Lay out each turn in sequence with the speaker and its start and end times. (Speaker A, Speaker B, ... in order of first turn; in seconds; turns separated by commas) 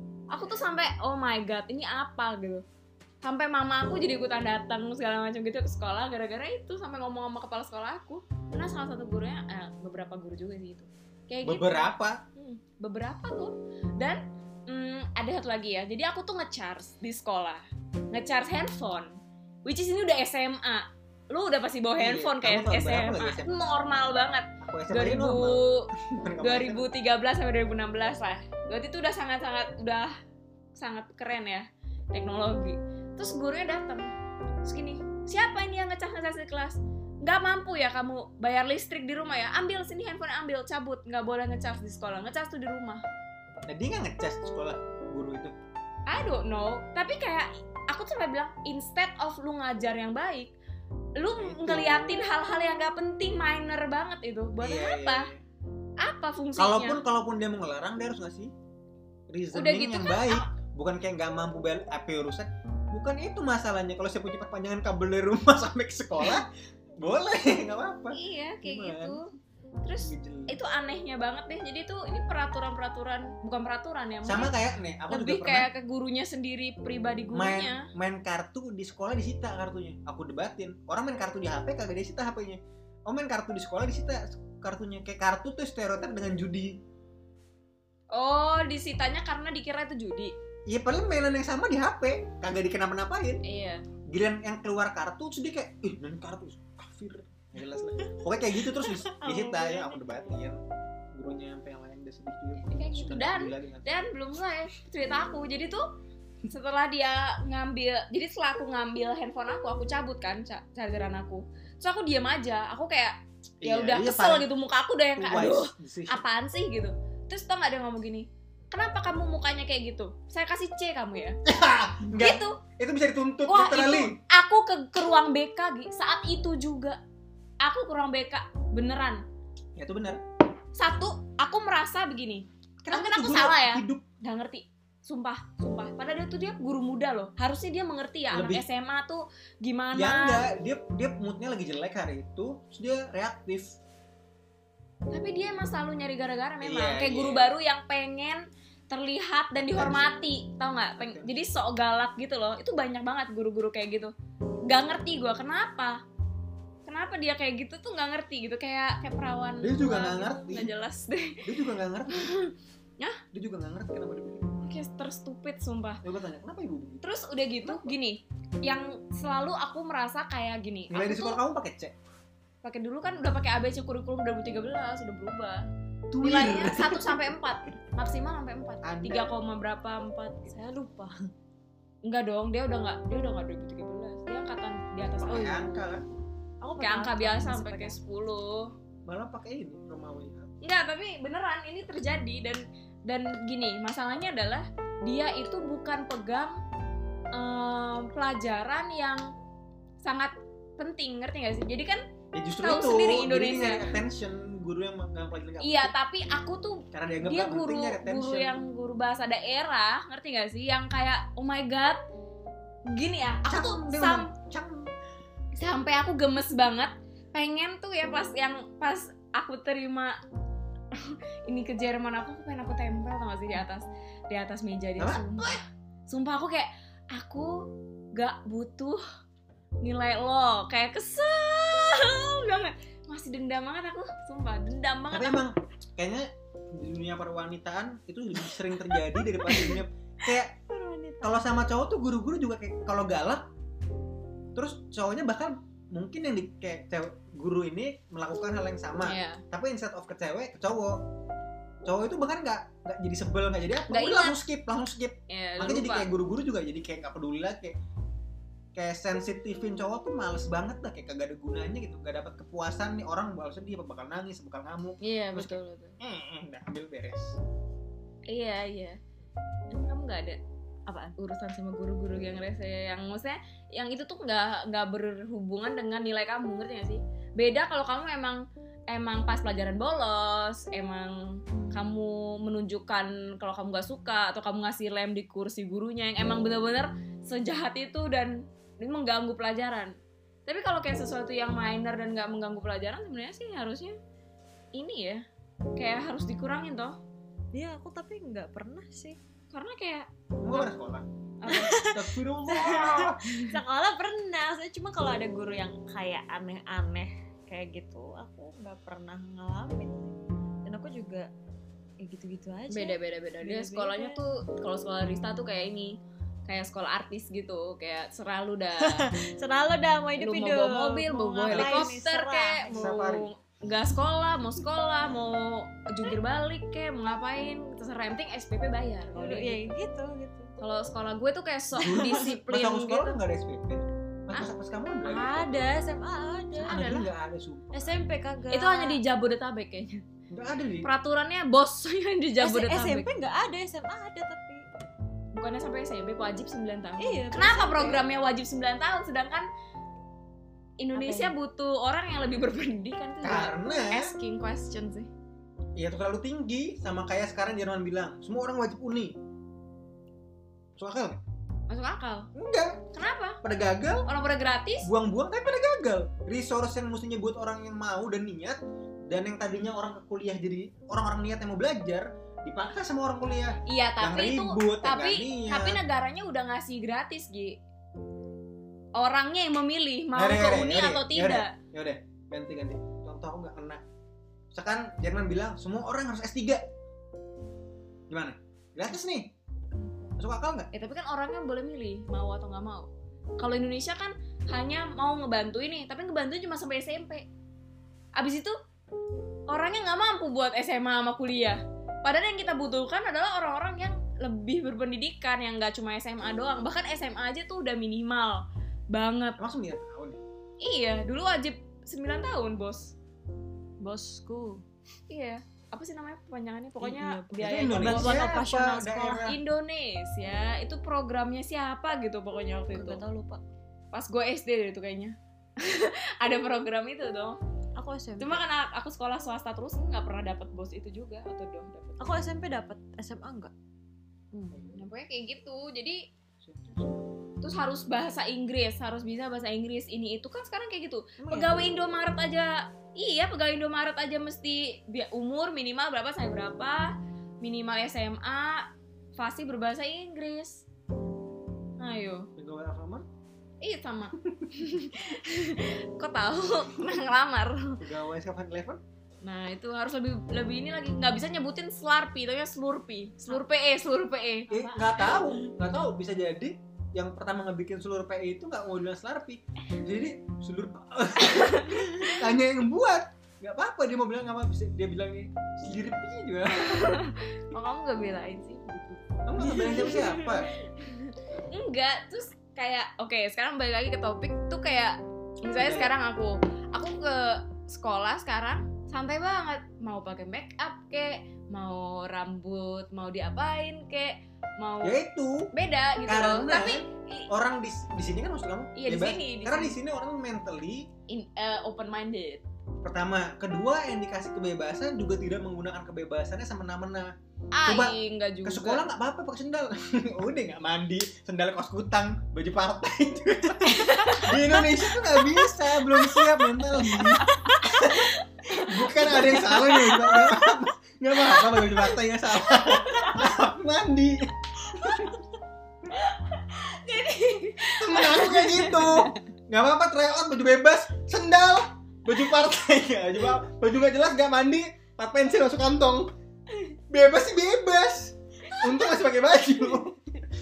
Speaker A: 0.3-2.6, Speaker A: 3.2-11.8, Speaker B: 11.4-12.2, Speaker A: 12.3-25.9, Speaker B: 22.0-23.6, Speaker B: 24.6-26.9, Speaker A: 26.4-30.1, Speaker A: 30.8-34.1, Speaker A: 34.6-43.0, Speaker B: 43.7-45.5, Speaker A: 46.1-50.5, Speaker A: 51.2-55.3, Speaker B: 51.4-52.2, Speaker B: 54.6-55.4, Speaker A: 56.0-57.0, Speaker B: 56.6-58.5, Speaker B: 59.3-66.5, Speaker A: 59.5-60.5, Speaker B: 67.0-69.2, Speaker A: 68.1-69.3, Speaker A: 69.8-74.5, Speaker B: 70.0-70.6, Speaker B: 74.2-75.7, Speaker A: 75.1-77.9, Speaker B: 77.3-86.8, Speaker A: 88.1-90.3, Speaker B: 90.7-93.4, Speaker A: 93.4-93.8, Speaker B: 94.1-100.6, Speaker C: 98.7-100.1, Speaker B: 101.1-103.9, Speaker A: 102.7-105.8, Speaker A: 106.5-121.4, Speaker B: 113.6-114.5, Speaker B: 115.2-116.2, Speaker B: 121.4-124.2, Speaker A: 122.1-122.6, Speaker A: 123.5-127.0, Speaker A: 127.6-129.2, Speaker B: 129.8-130.2, Speaker A: 130.8-140.4, Speaker B: 132.8-134.0, Speaker B: 138.3-138.6, Speaker B: 139.9-143.8, Speaker A: 145.1-154.1, Speaker B: 146.6-147.5, Speaker B: 149.7-150.1, Speaker B: 151.0-151.3, Speaker A: 154.7-156.0, Speaker A: 156.8-161.4, Speaker B: 159.6-160.7, Speaker B: 161.4-162.3, Speaker A: 162.1-163.2, Speaker B: 163.3-164.7, Speaker A: 164.6-166.0, Speaker B: 166.0-167.0, Speaker A: 167.0-171.4, Speaker B: 167.6-167.9, Speaker B: 170.9-171.9, Speaker A: 172.6-175.6, Speaker B: 176.1-177.2, Speaker A: 176.2-180.5, Speaker B: 178.8-179.3, Speaker C: 180.5-181.2, Speaker A: 182.0-185.8, Speaker B: 185.2-186.1, Speaker C: 186.6-188.0, Speaker A: 186.8-188.7, Speaker B: 189.1-190.5, Speaker A: 190.6-196.6, Speaker A: 197.3-199.3, Speaker A: 200.0-202.0, Speaker B: 202.3-205.9, Speaker A: 202.6-203.9, Speaker A: 205.6-212.0, Speaker B: 206.9-208.6, Speaker A: 212.9-214.3, Speaker B: 213.4-214.9, Speaker A: 215.6-220.2, Speaker A: 220.9-229.0, Speaker B: 225.0-225.6, Speaker A: 229.8-235.4, Speaker B: 235.1-240.6, Speaker C: 240.7-241.4, Speaker B: 241.2-243.5, Speaker B: 244.5-251.0, Speaker A: 249.0-249.4, Speaker B: 251.8-257.8, Speaker A: 253.9-254.4, Speaker A: 255.3-256.1, Speaker B: 258.7-267.4, Speaker A: 265.0-266.0, Speaker A: 268.3-269.0, Speaker A: 269.7-270.4, Speaker C: 270.9-271.1, Speaker A: 271.2-294.0, Speaker C: 281.5-281.8, Speaker A: 294.7-295.2, Speaker A: 295.8-297.0, Speaker C: 297.5-299.2, Speaker A: 299.5-300.7, Speaker B: 300.4-303.3, Speaker A: 301.4-301.8, Speaker C: 301.5-311.3, Speaker C: 312.0-314.2, Speaker A: 312.7-319.1, Speaker C: 318.8-322.9, Speaker A: 320.2-329.7, Speaker B: 321.5-321.9, Speaker B: 322.7-323.3, Speaker C: 329.1-330.5, Speaker A: 330.6-333.2, Speaker B: 331.8-335.6, Speaker C: 331.9-332.2, Speaker C: 335.0-337.0, Speaker A: 336.6-337.0, Speaker B: 336.6-338.0, Speaker C: 337.7-339.0, Speaker A: 338.5-340.0, Speaker B: 340.3-340.9, Speaker A: 340.8-343.1, Speaker C: 342.4-344.6, Speaker A: 345.3-349.5, Speaker C: 347.0-348.0, Speaker A: 350.8-355.1, Speaker C: 350.9-351.3, Speaker B: 353.2-354.1, Speaker B: 355.8-359.1, Speaker B: 360.8-361.2, Speaker A: 361.7-362.3, Speaker B: 362.3-362.9, Speaker A: 362.9-363.4, Speaker B: 363.4-364.1, Speaker A: 364.1-364.9, Speaker B: 364.8-375.8, Speaker A: 373.6-377.6, Speaker A: 378.9-381.5, Speaker B: 380.1-383.8, Speaker B: 384.5-386.6, Speaker B: 388.1-389.3, Speaker B: 390.2-390.7, Speaker A: 390.7-397.3, Speaker A: 398.1-398.5, Speaker A: 399.5-409.4, Speaker B: 409.4-410.2, Speaker A: 410.6-412.9, Speaker C: 413.8-414.6, Speaker A: 415.1-418.4, Speaker C: 416.8-419.3, Speaker B: 417.4-419.4, Speaker A: 419.2-423.0, Speaker C: 422.7-423.4, Speaker A: 423.9-427.4, Speaker C: 427.8-428.4, Speaker A: 428.2-432.1, Speaker C: 432.0-433.5, Speaker C: 434.3-434.7, Speaker A: 434.7-436.1, Speaker B: 436.4-437.0, Speaker A: 437.4-450.6, Speaker A: 451.8-452.3, Speaker B: 452.4-453.1, Speaker A: 453.6-457.8, Speaker B: 454.2-454.5, Speaker B: 457.8-458.8, Speaker A: 459.2-465.1, Speaker B: 464.5-477.0, Speaker A: 471.2-472.1, Speaker A: 476.5-495.0, Speaker B: 479.2-480.5, Speaker C: 479.5-480.3, Speaker B: 485.6-485.9, Speaker B: 494.8-495.5, Speaker A: 495.5-497.3, Speaker B: 496.1-500.9, Speaker A: 498.7-499.8, Speaker A: 501.1-502.4, Speaker B: 502.8-507.1, Speaker A: 507.5-508.8, Speaker B: 507.6-525.2, Speaker A: 513.6-514.7, Speaker A: 516.8-519.2, Speaker C: 517.3-517.6, Speaker C: 520.0-520.3, Speaker A: 522.8-523.1, Speaker A: 525.9-529.1, Speaker B: 527.7-536.1, Speaker B: 536.9-540.1